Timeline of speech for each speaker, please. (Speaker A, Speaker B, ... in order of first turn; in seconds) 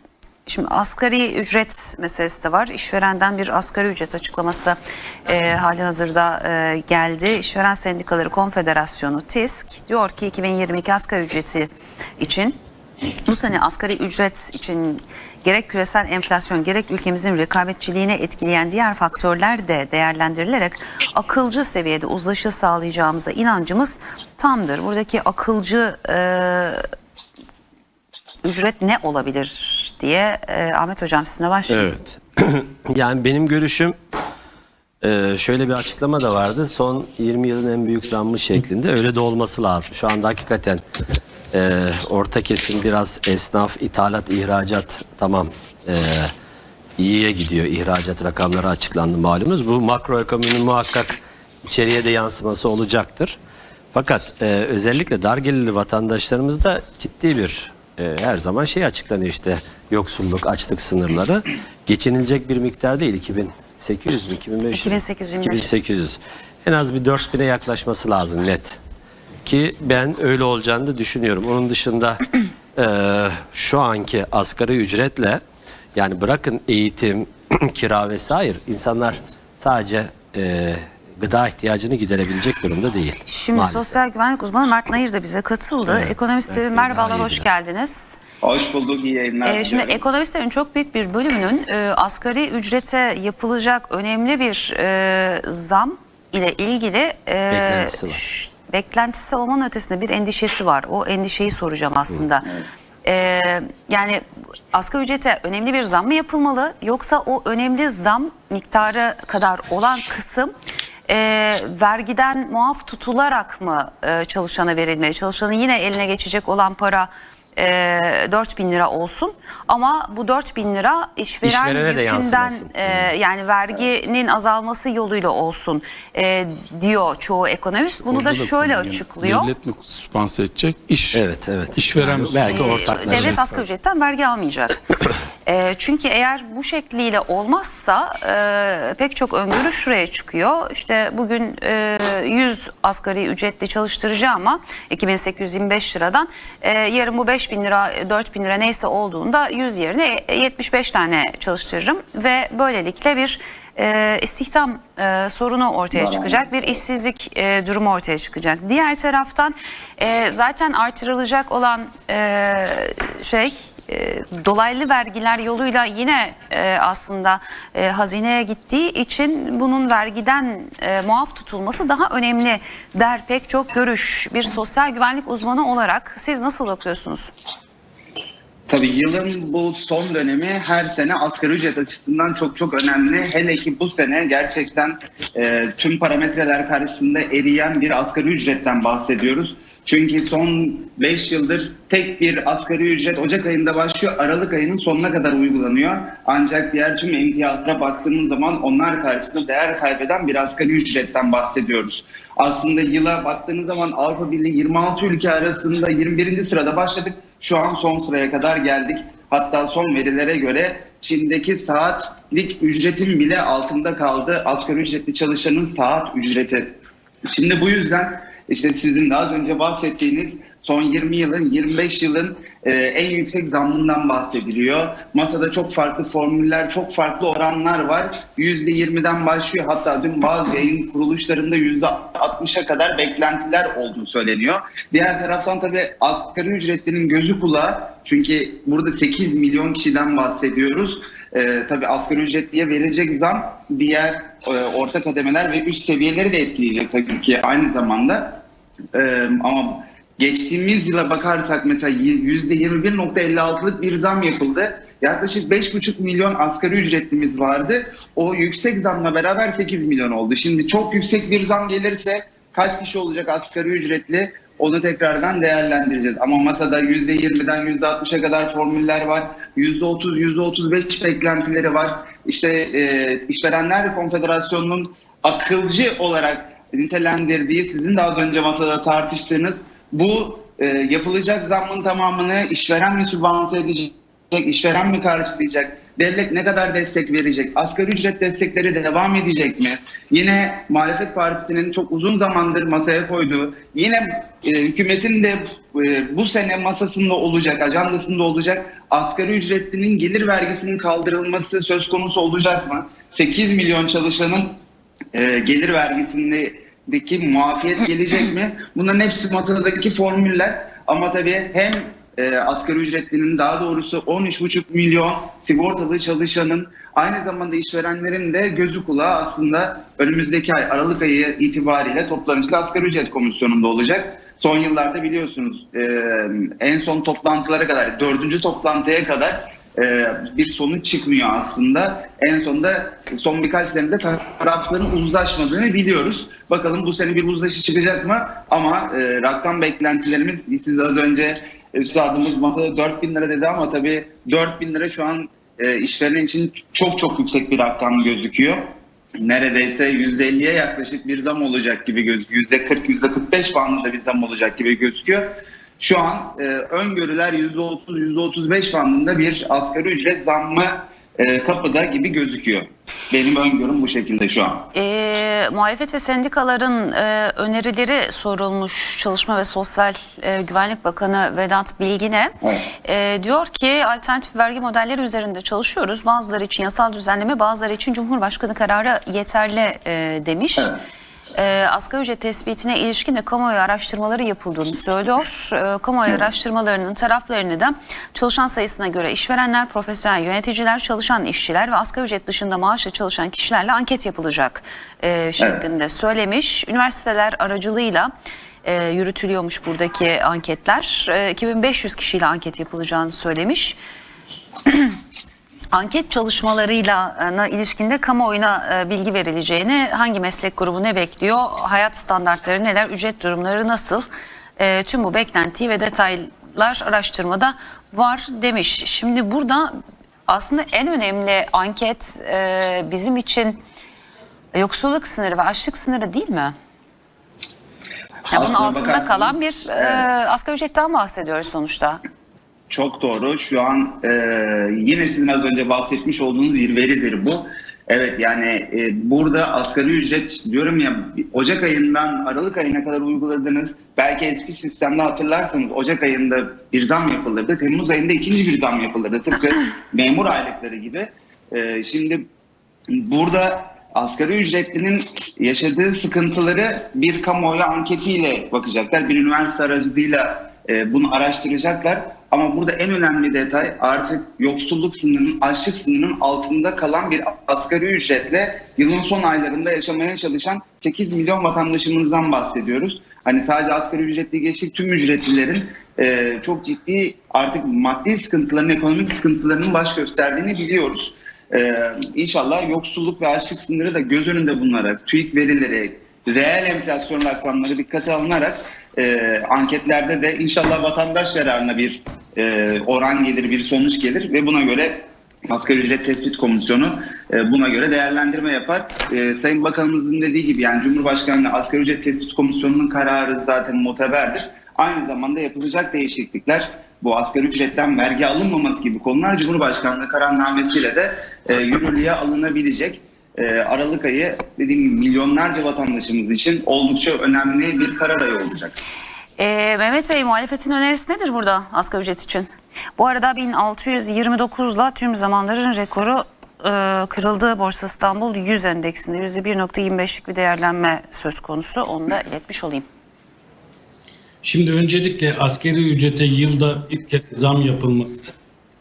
Speaker A: 0.5-12.6, 13.3-26.9, 28.4-31.9, 64.7-65.7, 83.2-88.2, 89.4-102.5, 103.0-110.5, 111.1-129.5, 132.4-134.8, 135.5-177.3, 364.7-380.7, 381.4-398.1, 398.6-403.8, 404.7-404.9, 405.7-414.1, 414.6-419.7, 420.3-423.6, 424.5-426.6, 428.3-432.0, 519.4-532.9
Speaker B: 31.7-34.0, 35.0-40.9, 41.5-46.3, 47.0-53.4, 53.9-68.8, 69.5-75.4, 76.0-83.9, 85.9-87.5, 97.5-98.2, 121.4-123.1, 131.1-133.6
Speaker C: 88.4-90.0, 155.9-156.4, 178.7-248.4, 248.9-304.6, 305.1-364.7, 428.3-430.1, 432.7-452.3, 452.9-518.8
Speaker D: 128.0-131.2, 131.8-133.4
Speaker E: 534.4-538.3